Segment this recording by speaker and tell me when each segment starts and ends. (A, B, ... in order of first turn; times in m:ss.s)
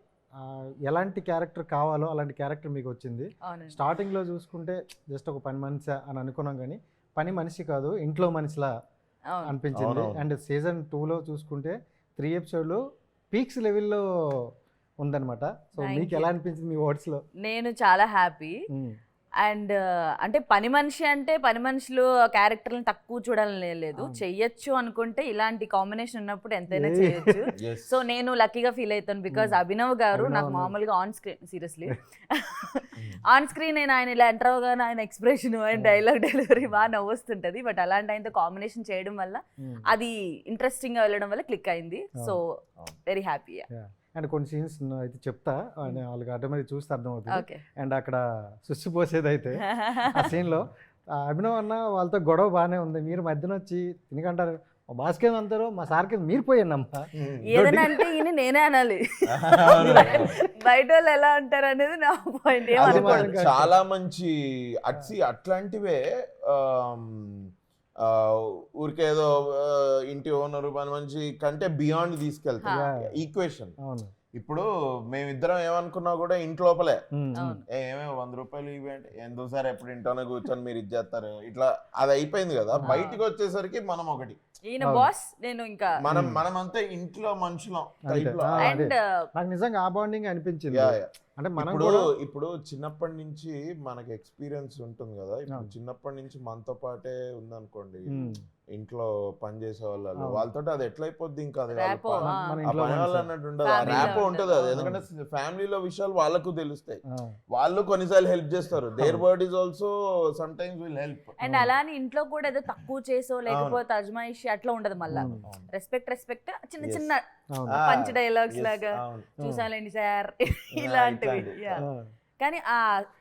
0:00.4-0:08.7 A
0:03.5-0:03.8 B
0:09.5-0:12.8 A
0:09.8-0:10.3 C
0:13.3-0:14.0 A
0:15.0-0:17.2 A
0:15.8-0:16.3 B
0:17.4-0:18.5 B
0:18.7-0:19.0 A
0:19.4-0:43.7 B
0:26.7-0:27.4 A
0:27.6-0:28.0 C
0:30.1-0:30.7 A
0:43.7-0:49.6 A
0:47.3-0:47.6 B
0:49.6-0:50.3 B
0:50.1-0:50.7 A
0:51.3-0:57.1 A
0:57.2-0:58.0 C
0:57.5-1:03.3 B
0:59.3-1:00.3 C
0:59.8-1:00.4 A
1:02.8-1:03.7 A
1:02.8-1:07.5 C
1:08.0-1:13.8 C
1:13.8-1:14.1 A
1:14.3-1:17.0 C
1:17.2-1:17.6 A
1:17.4-1:17.6 B
1:17.7-1:24.4 C
1:22.9-1:23.2 B
1:24.7-1:26.0 B
1:24.8-1:25.1 A
1:26.0-1:28.8 C
1:26.1-1:26.4 A
1:28.1-1:32.1 A
1:28.6-1:29.0 B
1:30.7-1:38.1 C
1:38.1-1:38.4 A
1:38.7-1:47.0 C
1:41.7-1:42.6 B
1:42.2-1:43.3 A
1:43.6-1:44.8 B
1:43.8-1:45.0 A
1:47.5-1:51.4 C
1:51.4-1:57.2 B
1:51.4-1:51.7 A
1:53.5-1:53.8 C
1:55.1-1:55.7 C
1:55.1-1:55.4 A
1:56.8-1:57.1 C
1:57.5-1:57.8 A
1:57.7-1:59.3 C
1:57.8-2:01.8 B
2:00.8-2:01.8 C
2:02.4-2:02.8 B